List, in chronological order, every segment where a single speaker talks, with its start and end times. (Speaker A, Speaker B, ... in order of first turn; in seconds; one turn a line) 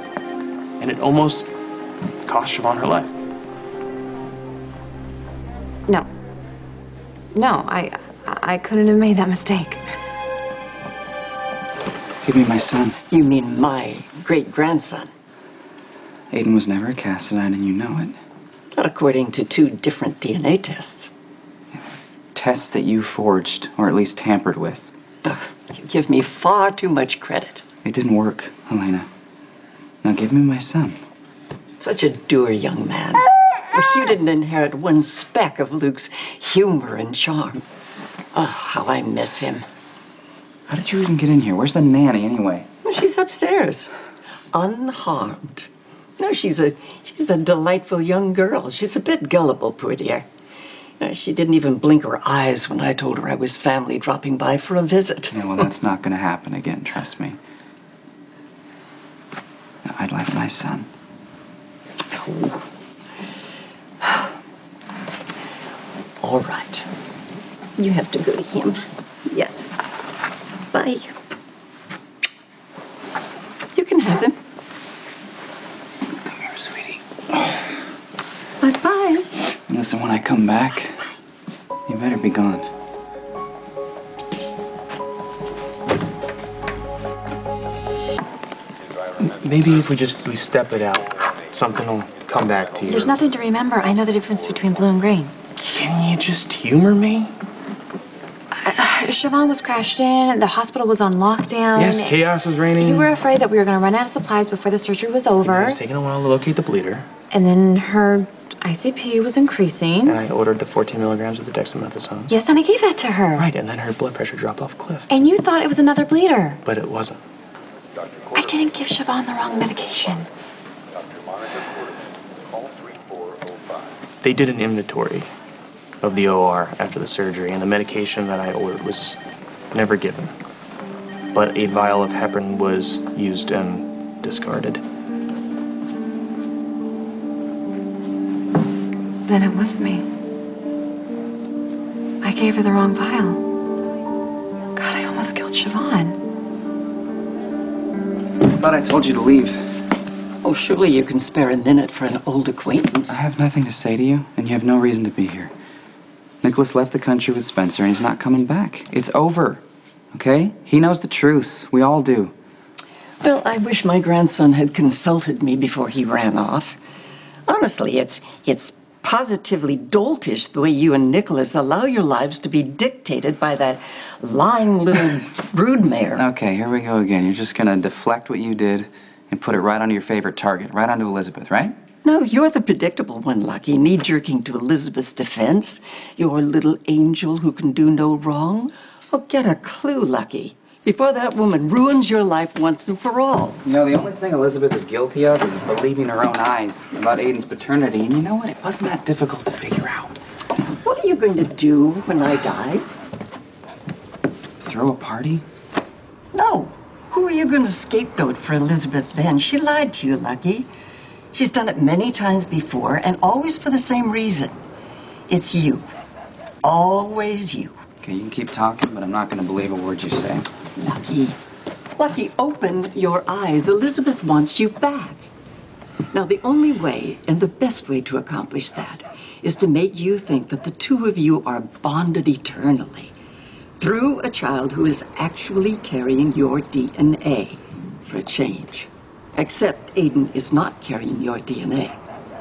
Speaker A: 0.8-1.5
Speaker A: 2.3-3.1
Speaker B: 7.3-9.8
Speaker C: 12.2-13.0
Speaker D: 13.1-15.1
Speaker C: 16.3-18.2
Speaker D: 18.7-21.1
Speaker C: 22.3-24.9
Speaker D: 25.2-27.6
Speaker C: 27.8-29.1
Speaker C: 30.0-31.0
Speaker D: 31.8-37.6
Speaker D: 38.3-39.7
Speaker C: 40.7-42.7
Speaker D: 42.8-43.9
Speaker D: 44.5-45.7
Speaker D: 46.2-50.3
Speaker D: 51.0-55.5
Speaker C: 55.3-57.4
Speaker C: 59.9-60.9
Speaker D: 66.2-66.9
Speaker D: 67.8-69.8
Speaker D: 70.7-71.1
Speaker D: 73.7-74.4
Speaker C: 76.2-77.6
Speaker D: 78.6-79.4
Speaker C: 79.5-81.0
Speaker C: 81.9-82.7
Speaker A: 89.2-93.2
Speaker B: 92.9-95.3
Speaker A: 95.6-97.3
Speaker B: 98.6-102.2
Speaker A: 101.8-103.1
Speaker B: 102.8-105.8
Speaker A: 105.5-107.1
Speaker B: 107.3-110.2
Speaker A: 110.0-112.3
Speaker B: 112.3-113.5
Speaker A: 113.4-115.1
Speaker B: 115.1-116.6
Speaker A: 116.7-117.2
Speaker B: 118.3-120.3
Speaker A: 124.2-125.3
Speaker A: 126.0-129.2
Speaker A: 129.7-130.3
Speaker A: 131.3-134.8
Speaker B: 139.3-140.1
Speaker B: 142.2-143.4
Speaker B: 144.8-146.2
Speaker C: 148.4-149.8
Speaker D: 150.4-153.2
Speaker C: 153.1-155.5
Speaker C: 156.4-159.6
Speaker C: 160.1-162.3
Speaker D: 163.2-166.8
Speaker D: 167.5-176.2
Speaker C: 176.2-181.8
Speaker D: 182.0-193.6
Speaker C: 193.6-200.2
Speaker D: 200.8-202.9
Speaker C: 204.6-205.4
Speaker D: 206.3-210.7
Speaker D: 211.3-214.6
Speaker D: 215.3-215.9
Speaker D: 216.6-217.7
Speaker C: 218.0-220.5
Speaker D: 220.8-221.4
Speaker D: 222.0-225.3
Speaker D: 226.1-233.2
Speaker D: 233.8-242.0